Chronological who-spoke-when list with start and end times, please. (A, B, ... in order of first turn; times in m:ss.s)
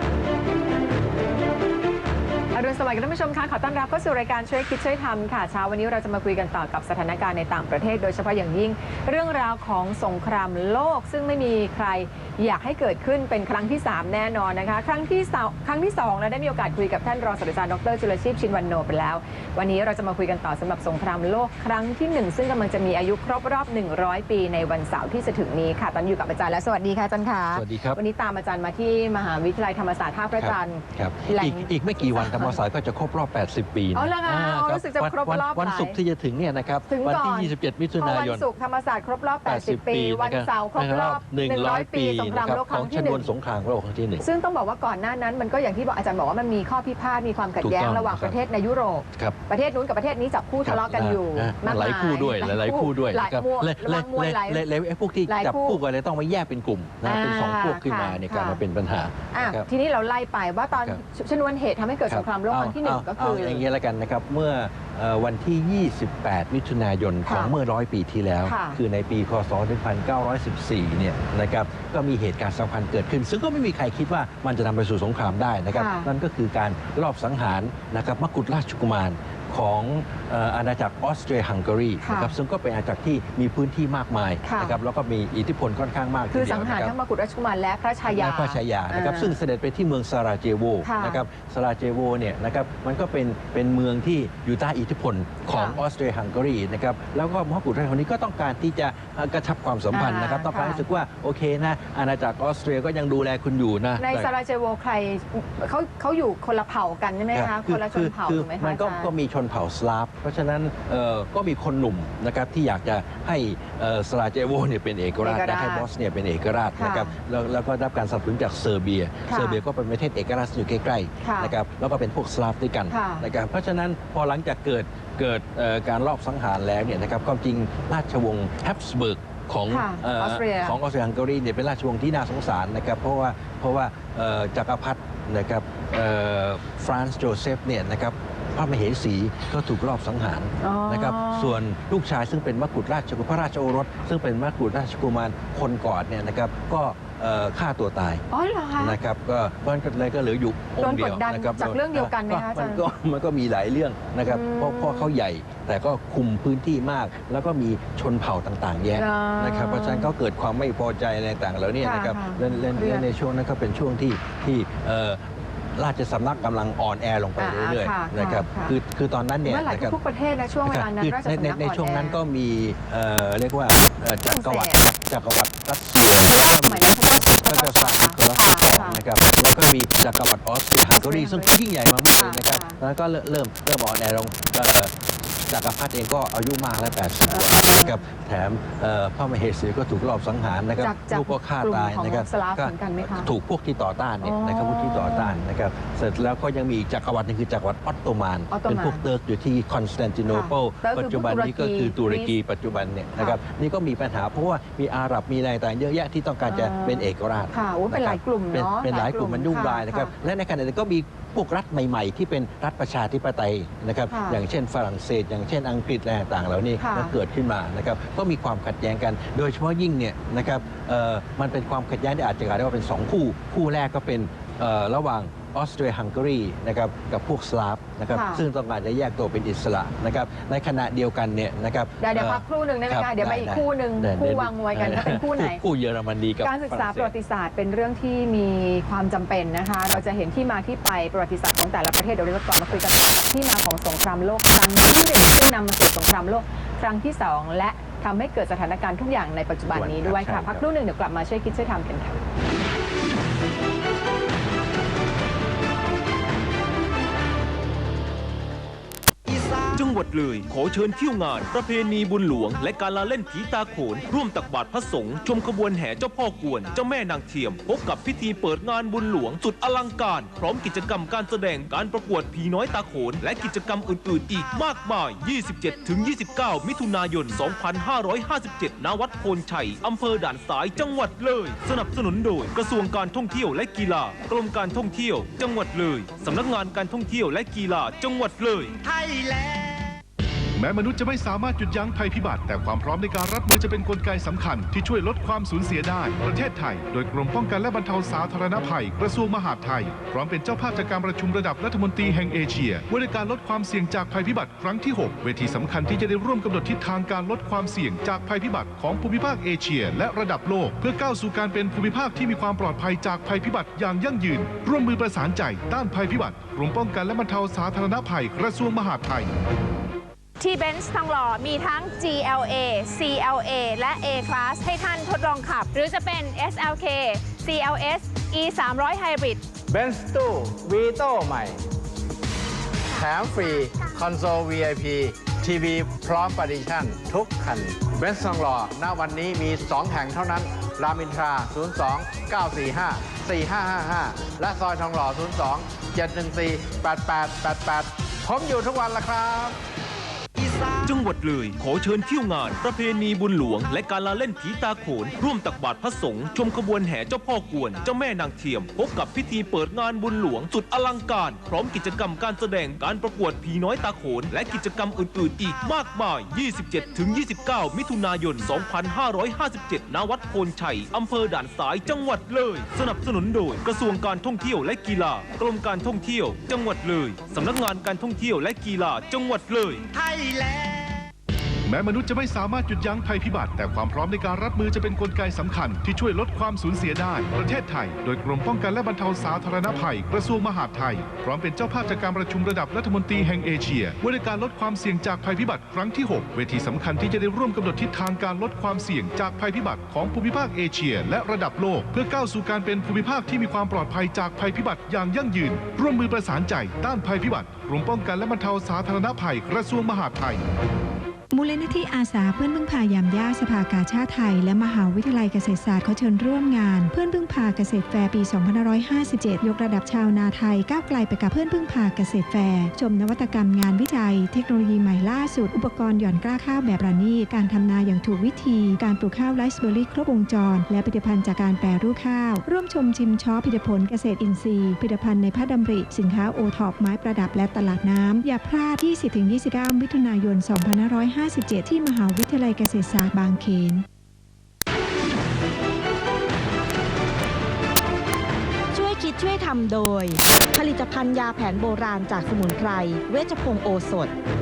0:02.5-0:32.6 A
0:27.5-0:28.0 B
0:30.4-0:38.5 B
0:33.9-0:36.0 A
0:36.9-0:43.3 A
0:39.4-0:44.2 B
0:44.2-0:54.6 A
0:47.6-0:48.4 B
0:50.6-0:59.7 B
0:55.3-0:55.8 A
0:57.0-0:58.6 A
0:59.3-1:03.6 A
1:02.1-1:26.9 B
1:07.2-1:07.5 A
1:08.4-1:08.8 A
1:15.7-1:16.1 A
1:22.0-1:22.3 A
1:24.4-1:24.8 A
1:26.3-1:29.4 A
1:28.1-1:44.3 B
1:30.8-1:31.2 A
1:35.5-1:35.8 A
1:39.9-1:40.8 A
1:44.0-1:49.1 A
1:47.3-2:28.2 B
1:55.2-1:55.9 A
1:56.8-1:57.1 A
1:59.3-1:59.6 A
2:01.2-2:01.6 A
2:02.9-2:03.3 A
2:09.7-2:10.8 A
2:20.6-2:21.6 A
2:28.3-2:29.0 A
2:28.8-2:45.2 B
2:30.8-2:32.8 A
2:34.2-2:35.2 A
2:39.0-2:40.1 A
2:41.8-2:43.1 A
2:45.8-2:50.0 B
2:47.4-2:48.8 A
2:49.4-2:52.2 A
2:50.7-3:04.9 B
2:54.2-2:54.8 A
2:56.2-2:59.0 A
3:00.9-3:01.6 A
3:02.1-3:02.8 A
3:05.5-3:57.1 B
3:07.3-3:08.0 A
3:10.8-3:13.3 A
3:14.2-3:15.4 A
3:18.5-3:19.0 A
3:20.3-3:22.3 A
3:26.5-3:30.1 A
3:34.1-3:34.4 A
3:36.8-3:37.2 A
3:48.1-3:48.4 A
3:52.0-3:55.6 A
3:56.4-4:12.3 A
4:09.7-4:10.7 B
4:19.6-4:48.8 C
4:48.8-4:49.9 D
4:50.6-5:19.3 E
5:20.4-5:29.4 F
5:29.7-5:31.6 D
5:33.0-5:49.6 D
5:50.8-6:19.8 C
6:20.0-6:21.0 D
6:21.7-6:50.4 E
6:51.3-7:23.9 G
7:28.7-7:34.1 H